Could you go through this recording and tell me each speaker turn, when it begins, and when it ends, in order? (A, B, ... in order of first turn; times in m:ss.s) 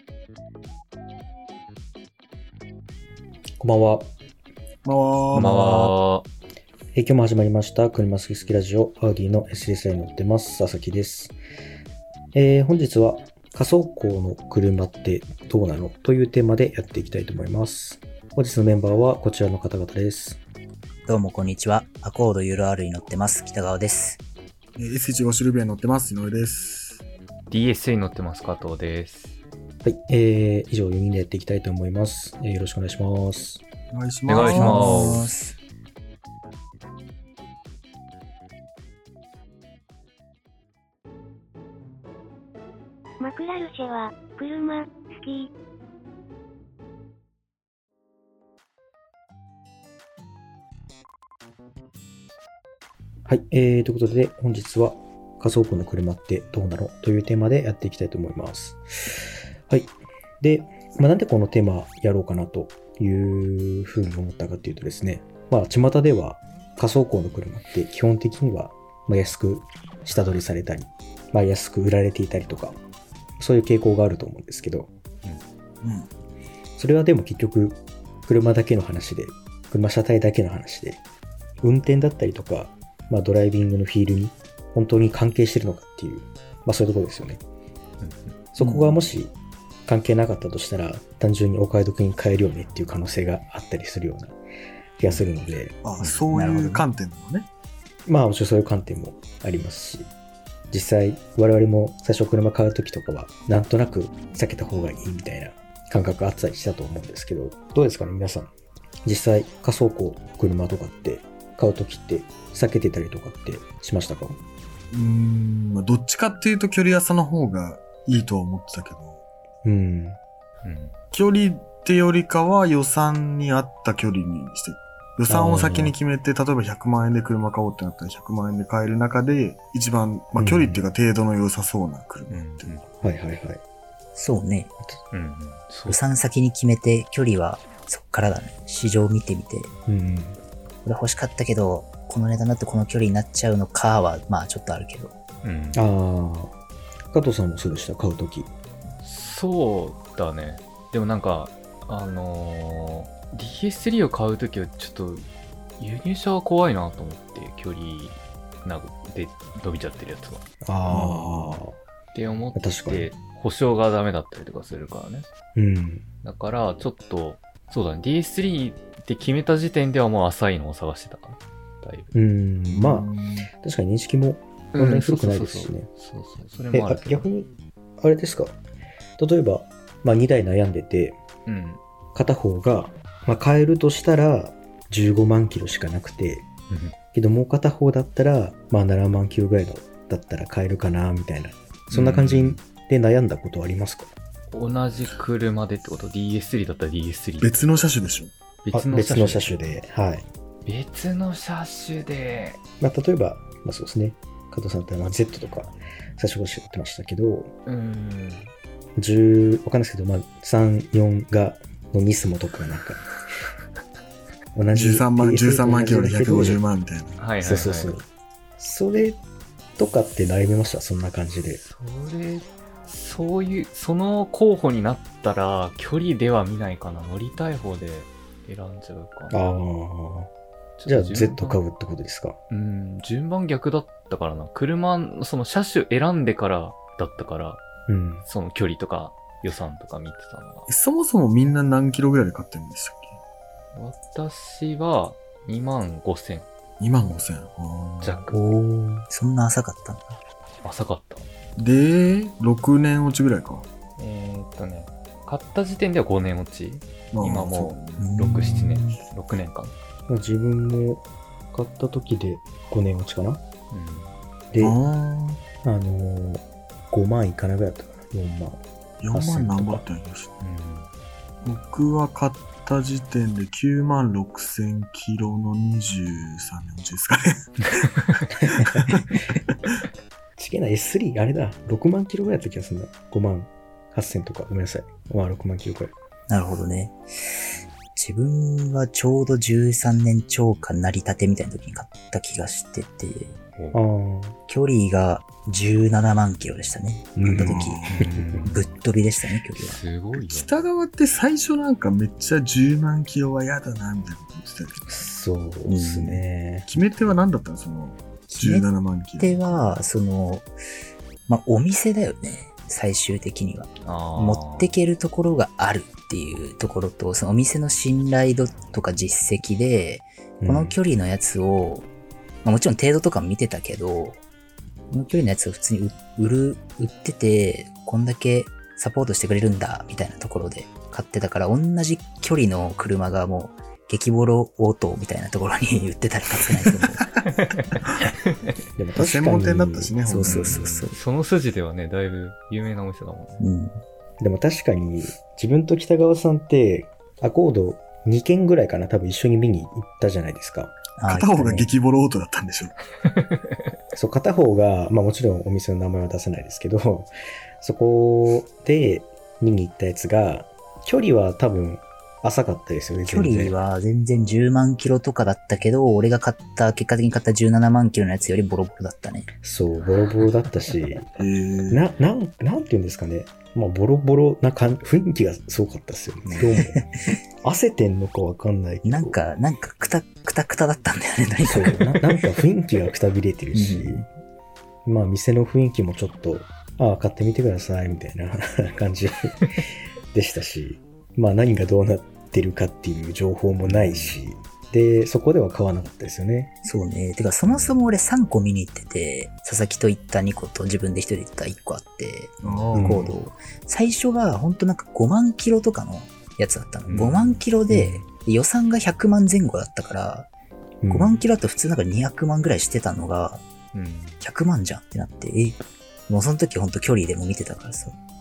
0:03.6-0:04.1 A
0:04.8-0:06.0 B
0:05.3-0:06.3 C
0:06.9-0:11.4 A
0:12.3-0:20.4 A
0:21.1-0:24.2 D
0:24.8-0:27.0 B
0:27.5-0:29.4 C
0:29.8-0:33.6 A
0:33.9-0:35.2 B
0:34.3-0:35.3 C
0:34.4-0:35.6 D
0:43.2-0:45.5 E
0:53.3-1:12.8 A
1:13.4-1:14.9 A
1:15.8-1:16.1 B
1:16.8-1:21.0 A
1:21.6-1:27.4 A
1:28.0-1:28.4 C
1:28.5-1:29.3 A
1:28.6-1:29.0 D
1:29.9-1:34.4 A
1:35.0-1:35.8 A
1:35.0-1:35.3 C
1:35.8-1:37.5 B
1:36.0-1:36.2 C
1:36.3-1:36.8 D
1:38.1-1:40.1 A
1:40.7-1:48.5 A
1:49.0-1:54.4 A
1:54.9-1:59.2 B
1:59.6-2:00.2 A
2:00.6-2:00.9 C
2:01.1-2:12.7 B
2:05.3-2:05.9 A
2:10.4-2:10.8 A
2:12.3-2:12.9 C
2:13.0-2:13.6 A
2:14.2-2:14.7 D
2:15.1-2:16.0 C
2:15.9-2:19.7 D
2:19.9-2:20.4 A
2:20.8-2:25.2 D
2:25.4-2:25.8 C
2:25.7-2:26.5 A
2:27.1-2:28.5 A
2:29.0-2:35.3 C
2:35.8-2:40.4 C
2:40.6-2:41.8 A
2:40.9-2:41.6 B
2:42.1-2:45.3 C
2:42.6-2:43.1 A
2:45.6-2:46.0 A
2:46.2-2:52.1 C
2:52.1-2:53.1 A
2:52.7-2:53.5 B
2:53.6-2:55.9 A
2:54.7-2:57.3 C
2:56.7-2:57.5 A
2:58.0-2:58.5 A
2:59.2-3:01.2 A
3:01.5-3:01.8 C
3:02.2-3:06.5 A
3:06.7-3:07.0 C
3:07.1-3:14.1 A
3:11.9-3:12.6 C
3:14.5-3:17.7 C
3:17.4-3:18.3 B
3:18.6-3:19.7 C
3:18.7-3:20.3 A
3:20.7-3:22.6 C
3:22.8-3:27.5 A
3:27.7-3:28.5 C
3:29.0-3:33.0 A
3:34.6-3:36.6 A
3:34.7-3:37.2 B
3:37.2-3:38.0 C
3:37.4-3:38.0 A
3:38.6-3:39.2 A
3:39.8-3:41.6 A
3:41.5-3:49.4 C
3:49.3-3:50.3 A
3:50.8-3:51.6 C
3:50.9-3:52.4 A
3:52.5-3:57.6 C
3:57.9-3:58.2 A
3:58.2-4:00.7 C
4:00.7-4:03.2 B
4:03.7-4:06.5 C
4:06.8-4:08.2 B
4:08.0-4:08.4 C
4:08.3-4:10.1 D
4:10.6-4:11.3 C
4:11.6-4:13.7 B
4:14.0-4:19.7 C
4:17.1-4:18.1 B
4:18.0-4:19.0 D
4:20.1-4:23.4 A
4:23.7-4:24.1 C
4:24.6-4:25.4 B
4:25.6-4:29.8 A
4:29.0-4:30.3 B
4:30.4-4:30.9 C
4:31.4-4:39.0 B
4:40.4-4:45.9 A
4:46.3-4:47.4 D
4:47.9-4:53.4 D
4:53.7-4:54.4 A
4:54.5-4:57.9 D
4:57.2-4:58.4 A
4:57.4-4:58.1 B
4:57.9-4:58.6 C
4:58.4-4:59.8 D
4:59.6-5:00.5 C
5:00.2-5:05.0 B
5:04.9-5:06.7 A
5:05.7-5:06.2 D
5:06.7-5:09.8 B
5:08.3-5:08.7 D
5:09.2-5:10.5 D
5:11.3-5:21.9 D
5:13.8-5:14.7 C
5:20.4-5:20.8 A
5:22.4-5:24.2 D
5:24.9-5:37.1 D
5:38.8-5:39.9 A
5:39.0-5:40.8 B
5:40.0-5:41.0 D
5:40.2-5:43.4 C
5:43.4-5:43.8 D
5:44.2-5:50.7 A
5:51.0-5:51.7 D
5:51.1-5:52.8 B
5:53.2-5:53.6 C
5:53.9-6:03.6 A
6:03.1-6:09.3 D
6:09.4-6:11.1 A
6:11.2-6:11.8 B
6:11.7-6:16.8 A
6:16.4-6:16.9 D
6:17.4-6:19.2 A
6:18.8-6:22.0 D
6:21.4-6:24.1 A
6:23.5-6:24.1 D
6:24.8-6:29.4 A
6:30.1-6:36.5 A
6:33.6-6:34.2 C
6:36.6-6:50.3 D
6:37.5-6:37.8 C
6:42.4-6:43.1 B
6:42.7-6:43.1 A
6:46.9-6:47.4 C
6:47.7-6:48.0 A
6:50.8-6:51.2 A
6:50.9-6:53.4 D
6:53.7-6:54.2 C
6:54.2-6:58.0 D